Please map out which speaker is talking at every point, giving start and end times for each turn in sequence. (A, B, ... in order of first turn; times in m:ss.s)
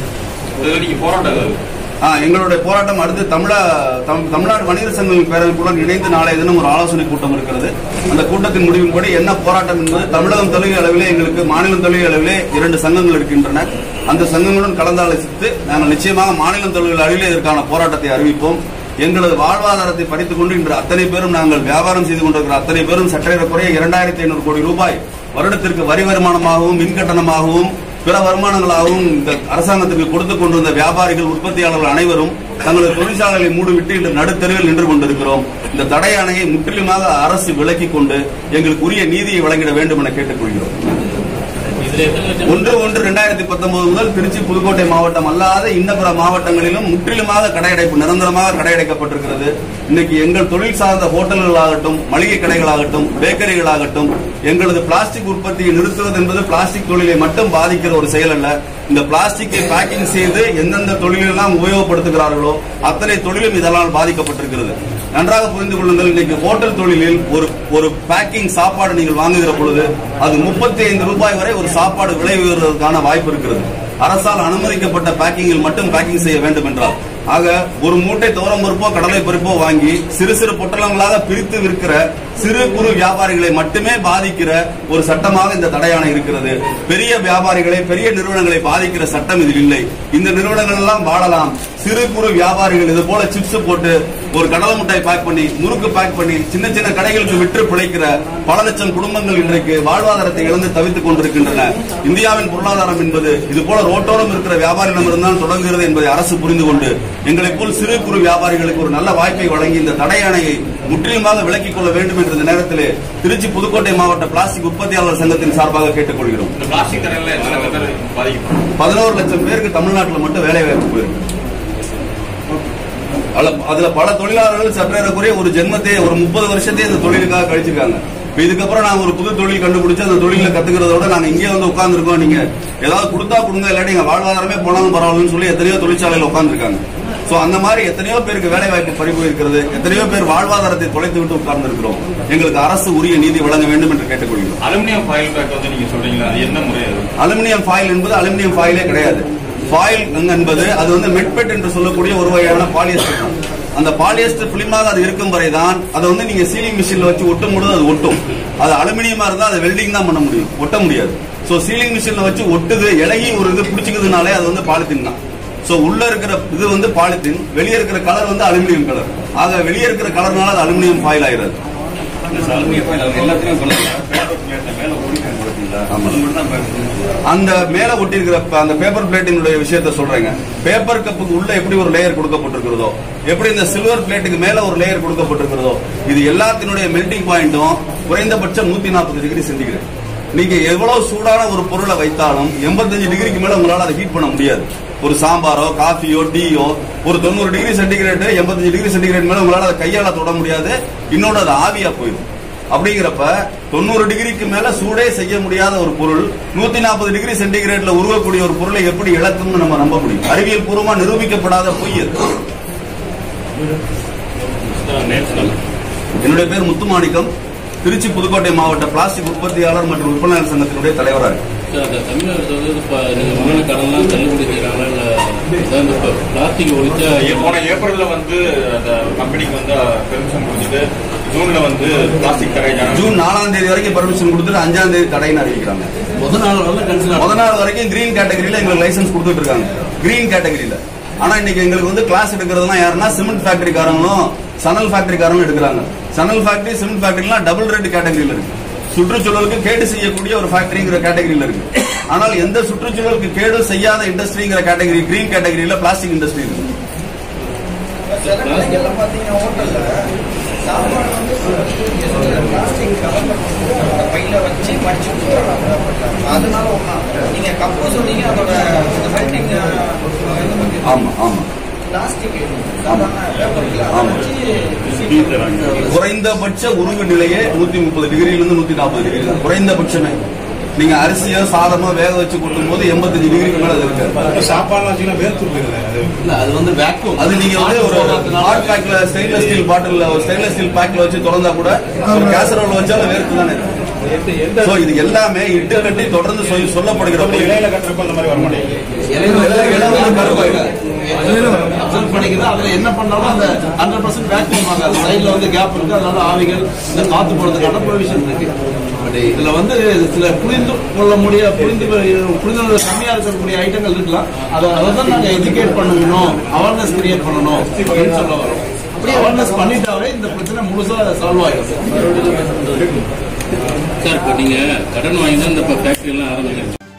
0:00.6-0:01.6 A
0:02.0-0:40.8 B
0:41.8-0:42.8 C
0:42.4-1:56.5 B
1:56.6-1:58.6 A
1:57.4-1:57.7 C
1:58.8-2:01.2 B
2:03.4-2:24.6 B
2:24.6-2:27.1 A
2:27.2-2:51.6 B
2:52.3-2:57.1 A
2:55.9-2:56.2 B
2:57.3-3:09.8 B
3:10.4-3:32.2 B
3:34.7-3:35.6 C
3:36.2-3:37.3 B
3:37.8-3:41.4 B
3:41.7-3:47.5 C
3:47.2-3:53.1 A
3:52.9-3:55.9 B
3:56.2-3:57.1 D
3:57.2-4:16.7 B
4:18.1-4:20.1 E
4:18.2-4:18.8 C
4:20.6-4:30.8 E
4:30.8-4:31.5 B
4:31.9-4:35.6 E
4:33.9-4:34.3 B
4:34.7-4:35.9 A
4:35.9-4:40.2 B
4:40.8-4:44.2 B
4:44.3-4:46.1 F
4:46.2-4:48.7 D
4:47.2-4:53.7 B
4:54.3-4:54.6 F
4:54.6-4:57.7 B
4:57.2-4:58.8 F
4:59.0-5:22.1 D
5:19.0-5:19.8 E
5:24.0-5:26.8 C